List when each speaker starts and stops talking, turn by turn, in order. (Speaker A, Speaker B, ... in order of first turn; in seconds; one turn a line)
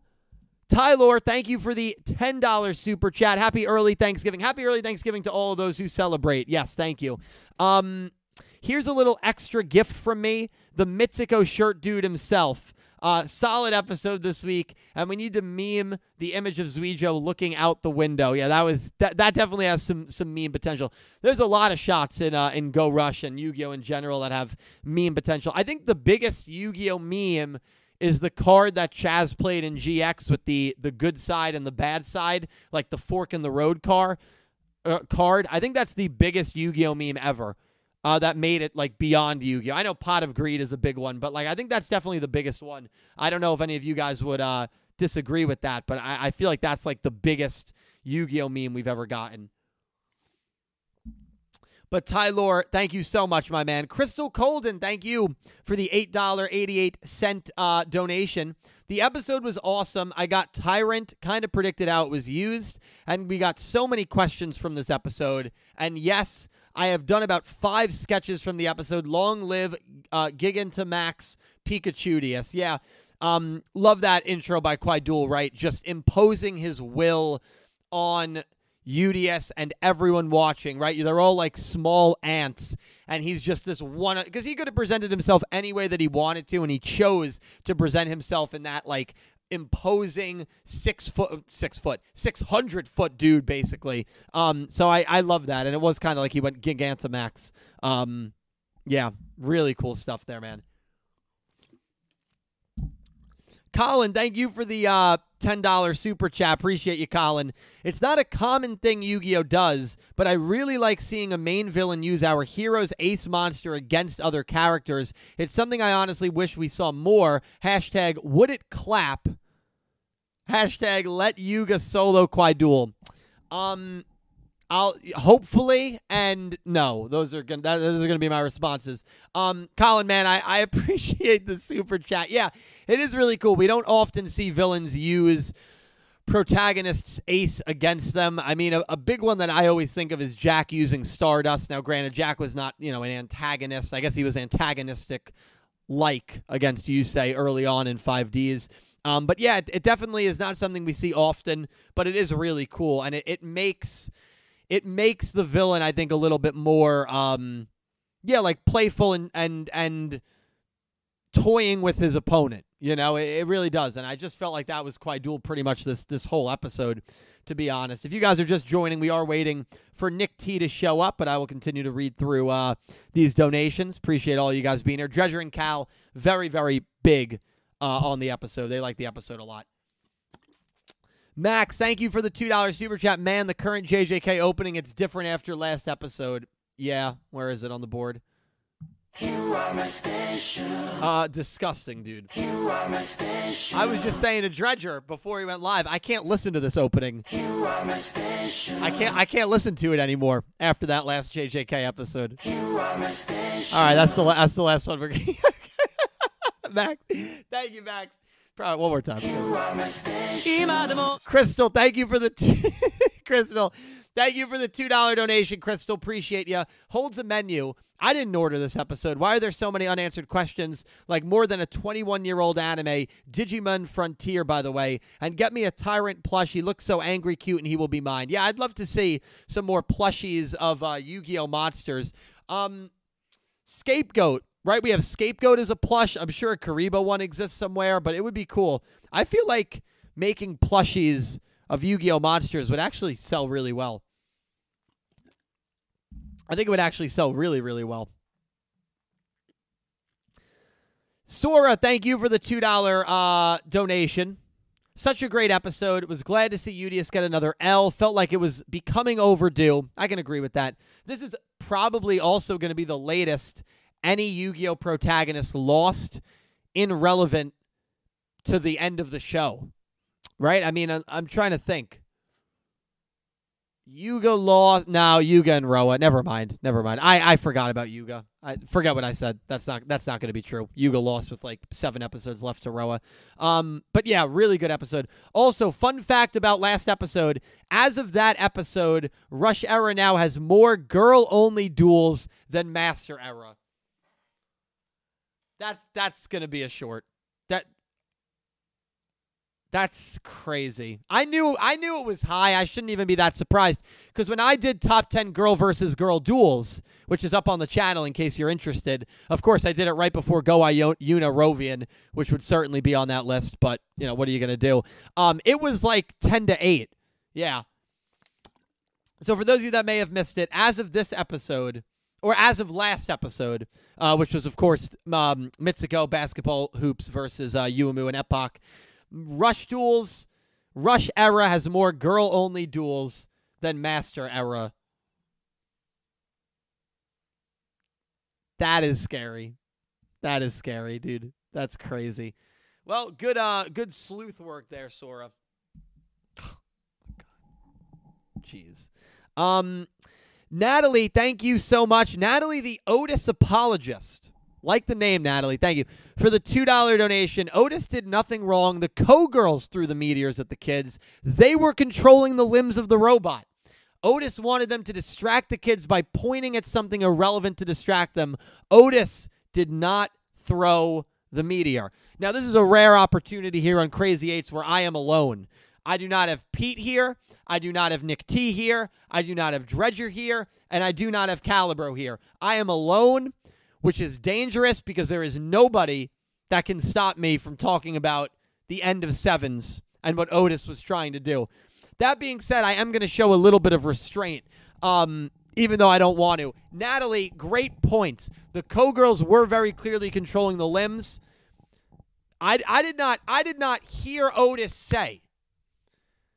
Speaker A: 0.7-34.2
Speaker A: 34.8-49.5
Speaker A: 51.9-98.3
Speaker A: 98.9-100.6
Speaker A: 103.7-119.4
Speaker A: 120.5-122.9
Speaker A: 123.5-124.0
Speaker A: 124.7-135.5
Speaker A: 136.3-145.3
Speaker A: 145.9-154.1
Speaker A: 154.7-157.7
Speaker A: 158.2-160.2
Speaker A: 161.3-179.7
Speaker A: 181.4-188.2
Speaker A: 191.0-192.3
Speaker A: 193.7-197.3
Speaker A: 198.8-202.4
Speaker A: 203.7-232.9
Speaker A: 233.7-244.0
Speaker A: 246.5-248.1
Speaker A: 251.3-254.4
Speaker A: 254.9-266.2
Speaker A: 266.7-267.5
Speaker A: 268.4-269.7
Speaker A: 270.4-272.0
Speaker A: 273.9-293.6
Speaker A: 295.6-297.7
Speaker A: 299.7-317.6
Speaker A: 319.2-334.7
Speaker A: 338.6-339.6
Speaker A: 340.2-342.3
Speaker A: 342.9-345.3
Speaker A: 348.4-349.9
Speaker A: 350.5-363.4
Speaker A: 364.0-401.2
Speaker A: 402.4-405.2